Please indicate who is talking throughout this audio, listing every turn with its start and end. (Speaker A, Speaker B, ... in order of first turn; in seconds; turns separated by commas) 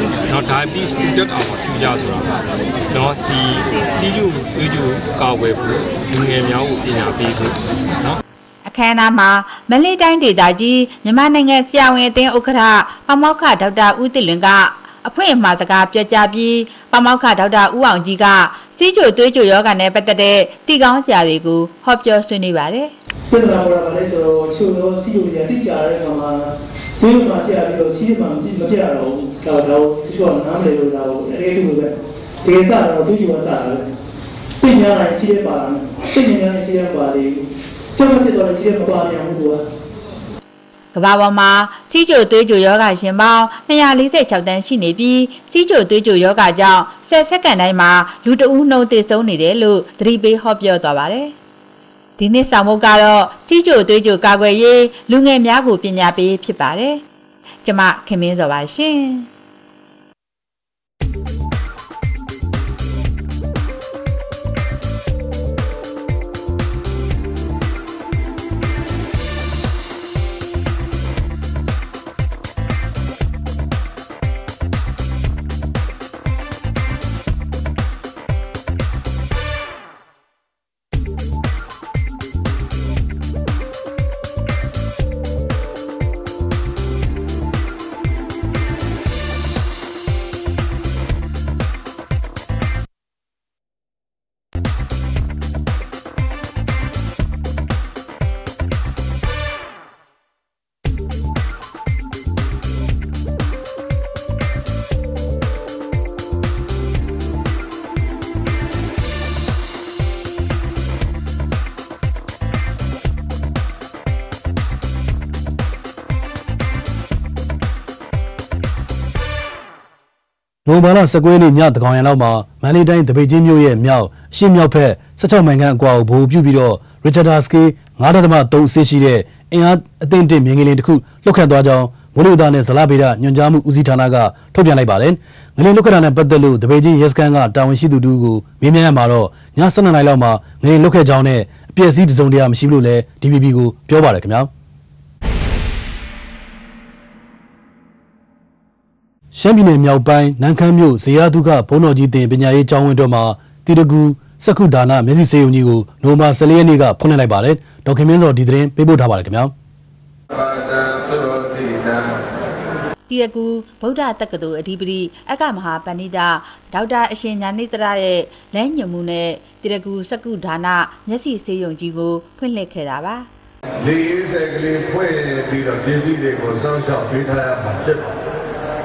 Speaker A: 0.2-8.2, Speaker B: 8.6-22.9, Speaker C: 23.3-33.9, Speaker C: 34.6-39.6, Speaker B: 40.9-51.3, Speaker B: 52.2-57.0, Speaker B: 57.6-59.3, Speaker D: 120.7-144.5, Speaker D: 149.3-159.5, Speaker E: 160.3-162.1, Speaker B: 163.1-173.3, Speaker E: 173.8-178.1